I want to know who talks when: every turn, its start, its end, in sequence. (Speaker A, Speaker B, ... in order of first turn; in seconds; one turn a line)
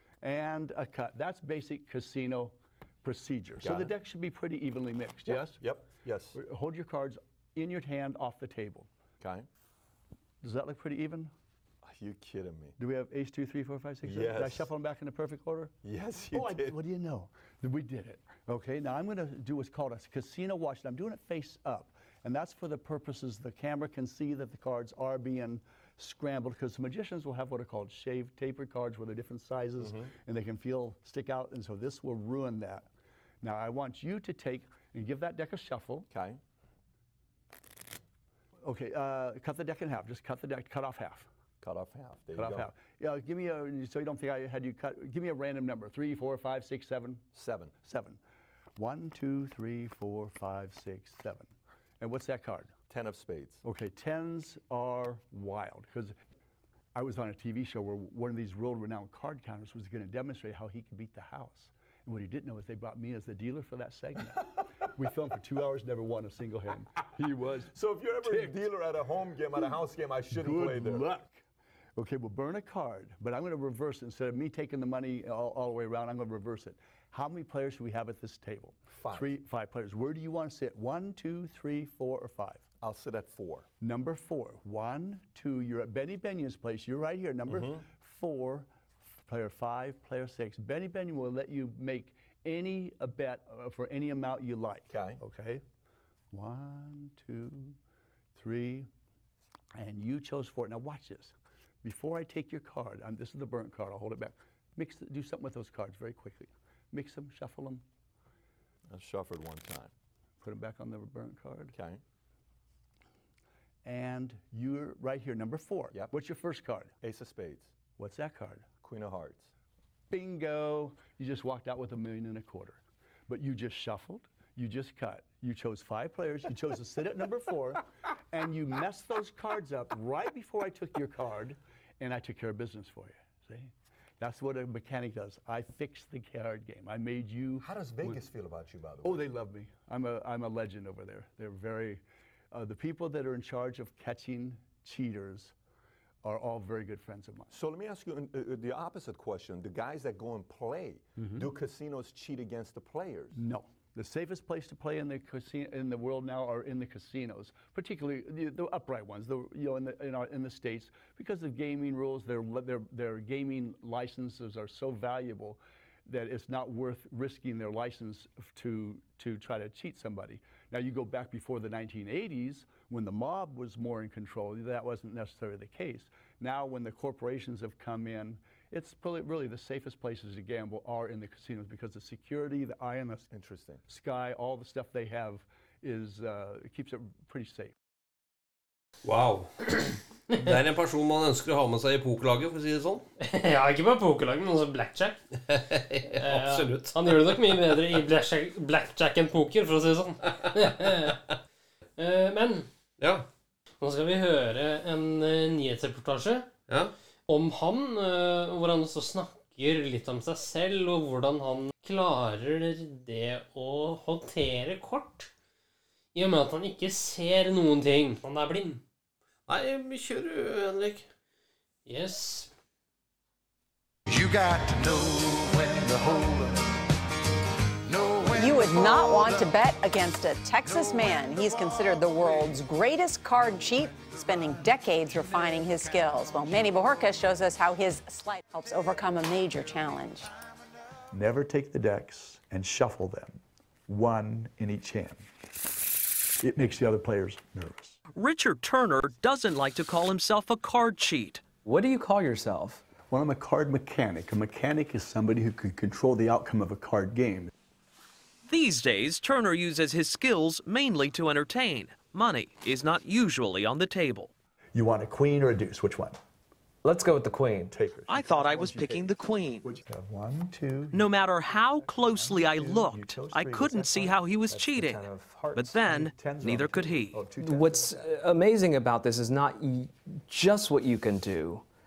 Speaker A: 0.2-8.9
Speaker B: 3.6-3.9
Speaker B: 5.3-6.3
Speaker B: 9.2-9.5
Speaker A: 10.4-11.3
Speaker B: 11.8-12.7
Speaker A: 12.8-15.7
Speaker B: 14.0-14.7
Speaker B: 15.8-16.8
Speaker A: 16.3-32.9
Speaker B: 29.8-30.1
Speaker A: 33.4-36.1
Speaker B: 36.1-36.4
Speaker A: 38.6-41.3
Speaker B: 41.6-42.7
Speaker A: 42.3-47.2
Speaker B: 47.3-47.7
Speaker A: 47.8-48.2
Speaker A: 48.8-52.7
Speaker B: 52.9-53.6
Speaker A: 53.6-56.1
Speaker A: 56.9-67.7
Speaker B: 67.7-71.1
Speaker A: 68.2-68.5
Speaker A: 70.3-71.4
Speaker A: 72.0-82.6
Speaker B: 79.0-79.3
Speaker B: 82.8-83.7
Speaker A: 83.8-88.7
Speaker B: 87.5-87.8
Speaker A: 89.2-95.6
Speaker B: 94.9-95.2
Speaker A: 96.3-97.8
Speaker A: 98.3-98.9
Speaker A: 99.8-107.8
Speaker B: 108.9-109.9
Speaker A: 110.4-111.7
Speaker B: 111.7-112.0
Speaker A: 113.8-116.9
Speaker B: 117.0-117.7
Speaker A: 118.0-118.7
Speaker B: 118.8-119.5
Speaker A: 120.1-138.2
Speaker B: 137.6-139.2
Speaker A: 139.0-145.5
Speaker A: 146.2-147.5
Speaker B: 147.5-153.4
Speaker A: 151.2-151.5
Speaker A: 153.3-183.3
Speaker B: 183.3-183.8
Speaker A: 183.9-187.7
Speaker C: 189.0-193.0
Speaker D: 193.2-195.2
Speaker C: 195.5-197.8
Speaker D: 196.1-201.2
Speaker D: 202.0-202.7
Speaker C: 203.0-203.2
Speaker D: 203.8-206.5
Speaker C: 206.7-206.9
Speaker D: 207.3-215.3
Speaker D: 216.1-218.8
Speaker C: 219.5-221.1
Speaker D: 221.8-222.5
Speaker E: 224.1-226.8
Speaker E: 227.8-229.5
Speaker F: 228.3-240.3
Speaker G: 241.1-245.2
Speaker A: 246.5-247.1
Speaker G: 247.1-247.9
Speaker H: 248.1-251.5
Speaker I: 251.6-252.8
Speaker A: 253.1-257.5
Speaker H: 258.4-264.3
Speaker G: 264.7-266.2
Speaker I: 266.8-267.7
Speaker G: 267.7-269.1
Speaker H: 268.1-269.6
Speaker G: 269.6-274.9
Speaker H: 270.9-277.2
Speaker I: 274.7-275.7
Speaker G: 275.5-278.1
Speaker I: 277.3-281.6